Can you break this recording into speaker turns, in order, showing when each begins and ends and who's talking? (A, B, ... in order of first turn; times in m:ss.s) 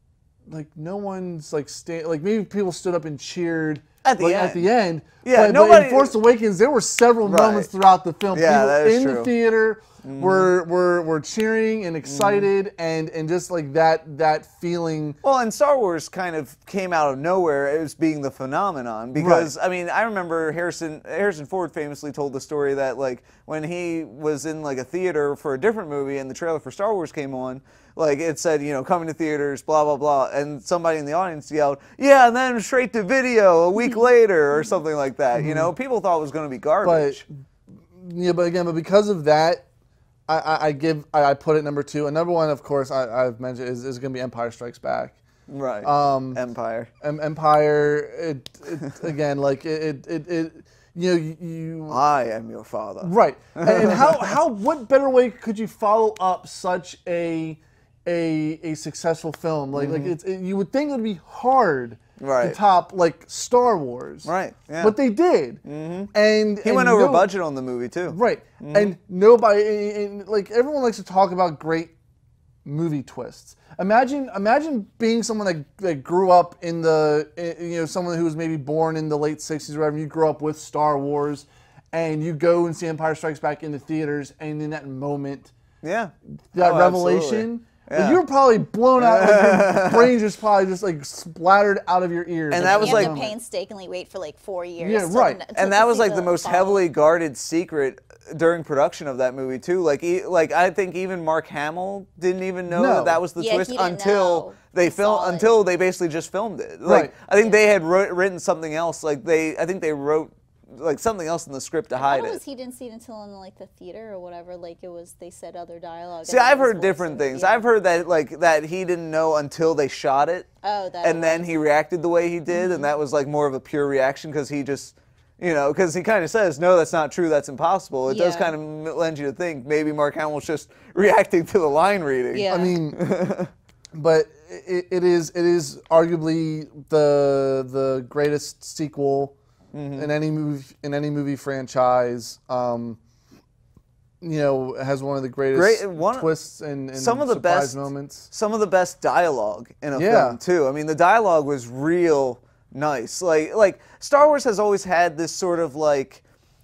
0:00.5-0:15.2 A
0:04.0-0:04.7 B
0:05.2-0:06.2 B
0:07.2-0:07.7 B
0:08.3-0:09.3 B
0:10.0-0:10.5 B
0:12.0-0:12.5 B
0:15.2-0:37.2 B
0:19.1-0:19.5 A
0:35.3-0:35.7 A
0:36.8-0:37.2 A
0:37.9-0:39.6 A
0:40.3-0:45.2 A
0:45.5-0:46.9 B
0:45.8-0:46.4 A
0:47.0-0:52.0 A
0:51.9-0:54.3 B
0:53.0-1:04.3 A
0:59.7-1:00.1 B
1:02.2-1:02.6 B
1:04.2-1:04.9 B
1:04.8-1:05.6 A
1:05.6-1:08.9 B
1:06.1-1:07.3 A
1:08.1-1:11.9 A
1:12.6-1:25.5 A
1:25.8-1:28.2 B
1:26.5-1:33.3 A
1:29.0-1:30.1 B
1:32.5-1:33.2 B
1:32.6-1:36.8 C
1:34.8-1:35.4 A
1:35.6-1:52.4 B
1:42.7-1:43.2 A
1:43.4-1:45.5 C
1:46.8-1:47.1 A
1:47.3-1:47.6 C
1:52.0-1:57.7 C
1:56.3-2:00.5 B
2:00.6-2:01.5 C
2:01.0-2:13.5 B
2:02.5-2:02.9 C
2:08.1-2:08.5 C
2:12.3-2:12.8 C
2:12.5-2:13.0 A
2:13.9-2:19.3 A
2:19.7-2:20.1 B
2:20.0-2:23.0 A
2:24.2-2:28.3 A
2:25.5-2:26.3 B
2:26.9-2:36.2 B
2:29.9-2:30.4 A